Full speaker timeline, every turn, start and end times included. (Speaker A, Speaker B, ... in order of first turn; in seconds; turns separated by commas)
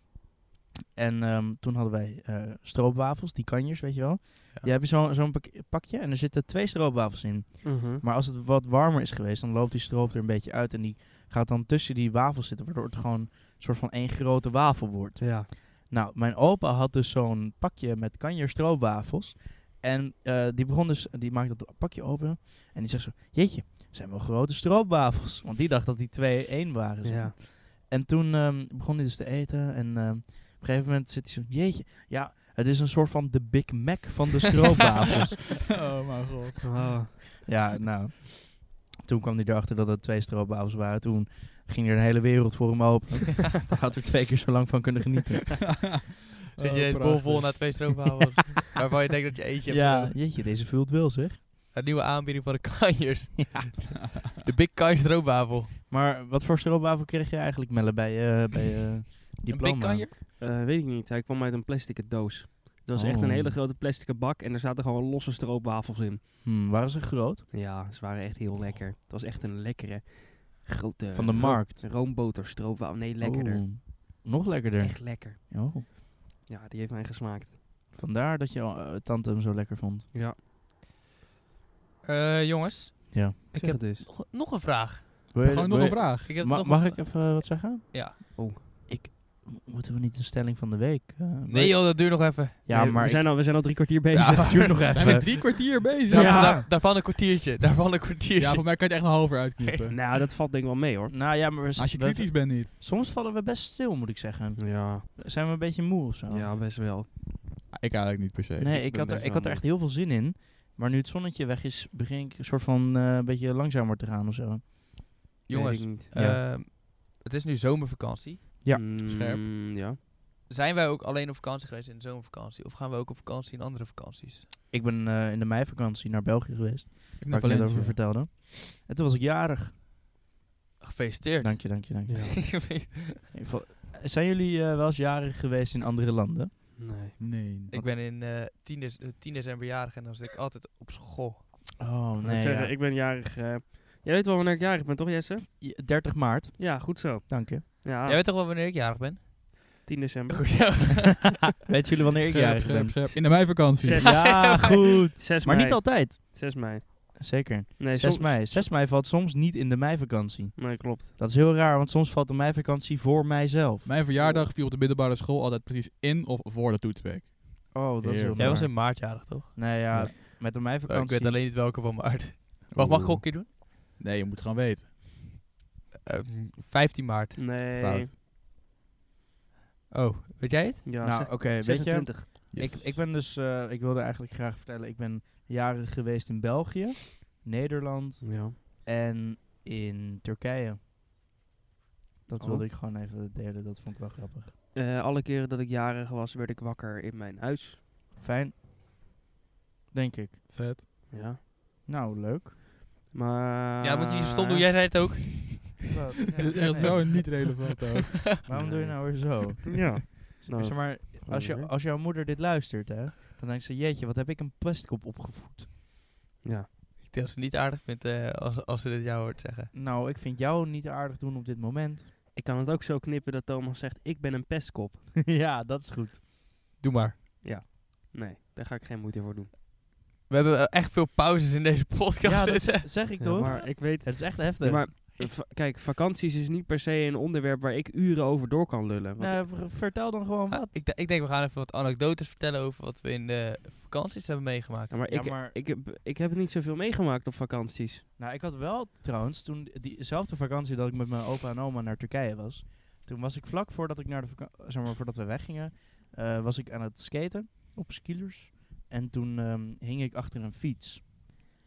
Speaker A: 0.9-35.6, Speaker B: 7.6-8.0, Speaker B: 15.2-15.5, Speaker B: 27.0-27.3, Speaker C: 35.9-36.9, Speaker B: 36.6-37.2, Speaker A: 37.5-45.6, Speaker C: 46.5-48.0, Speaker D: 46.6-50.2, Speaker A: 49.7-51.4, Speaker D: 51.7-55.8, Speaker A: 55.9-60.1, Speaker D: 59.5-60.1, Speaker B: 60.4-66.2, Speaker A: 63.0-63.6, Speaker A: 66.4-67.5, Speaker B: 67.5-73.7, Speaker A: 71.1-71.8, Speaker A: 73.2-75.9, Speaker B: 74.8-77.5, Speaker A: 77.9-80.1, Speaker D: 82.0-85.2, Speaker A: 83.1-83.4, Speaker B: 83.6-84.1, Speaker A: 85.3-93.5, Speaker C: 85.4-86.3, Speaker D: 86.2-88.2, Speaker D: 91.5-92.6, Speaker B: 92.7-94.8, Speaker D: 94.1-95.3, Speaker A: 94.4-95.3, Speaker C: 95.0-96.5, Speaker D: 96.1-99.9, Speaker A: 96.1-96.7, Speaker B: 96.2-96.5, Speaker C: 98.4-100.0, Speaker B: 99.9-101.1, Speaker A: 101.1-106.5, Speaker C: 101.8-102.7, Speaker B: 104.6-105.1, Speaker B: 106.3-107.1, Speaker C: 107.7-108.8, Speaker A: 108.6-115.0, Speaker B: 108.8-109.6, Speaker D: 115.5-118.5, Speaker B: 115.5-116.1, Speaker A: 116.1-116.4, Speaker B: 118.7-120.0, Speaker C: 119.0-119.4, Speaker D: 120.5-124.5, Speaker A: 124.7-129.7, Speaker C: 127.2-128.0, Speaker D: 130.8-133.2, Speaker A: 131.4-132.5, Speaker B: 132.1-132.3, Speaker A: 133.3-136.6, Speaker B: 136.8-137.2, Speaker C: 137.2-137.8, Speaker D: 137.7-141.4, Speaker A: 141.8-142.7, Speaker B: 142.2-145.5, Speaker A: 145.6-147.6, Speaker B: 146.6-148.2, Speaker D: 148.1-151.4, Speaker B: 149.9-150.8, Speaker A: 151.6-156.4, Speaker C: 152.3-154.1, Speaker B: 153.8-154.7, Speaker D: 154.1-154.7, Speaker B: 155.2-158.7, Speaker A: 157.2-163.9, Speaker B: 160.6-161.1, Speaker C: 163.8-168.6, Speaker B: 164.2-164.5, Speaker A: 167.7-171.4, Speaker D: 168.4-169.6, Speaker D: 170.3-173.5, Speaker C: 172.7-174.9, Speaker D: 176.1-177.5, Speaker B: 177.4-178.1, Speaker C: 177.7-178.1, Speaker D: 179.9-180.8, Speaker B: 180.8-182.3, Speaker A: 181.0-190.8, Speaker C: 182.5-183.0, Speaker B: 188.2-188.6, Speaker A: 192.3-194.5, Speaker B: 192.4-192.7, Speaker B: 194.7-197.8, Speaker A: 198.2-198.6, Speaker A: 199.9-200.4, Speaker C: 200.5-200.8, Speaker B: 201.1-201.4, Speaker A: 201.9-202.6, Speaker B: 203.1-204.7, Speaker D: 203.8-205.9, Speaker A: 205.9-206.9, Speaker C: 206.4-208.4, Speaker D: 206.5-207.1, Speaker A: 208.4-215.7, Speaker B: 208.5-211.7, Speaker B: 216.4-216.7, Speaker D: 217.0-219.7, Speaker A: 219.7-222.1, Speaker B: 222.3-225.0, Speaker A: 225.2-226.2, Speaker D: 226.8-227.2, Speaker B: 227.4-229.5, Speaker D: 230.3-233.7, Speaker A: 232.2-234.9, Speaker B: 233.2-239.5, Speaker A: 239.2-240.8, Speaker D: 240.5-245.0, Speaker B: 244.9-248.0, Speaker A: 245.1-245.6, Speaker A: 248.2-261.4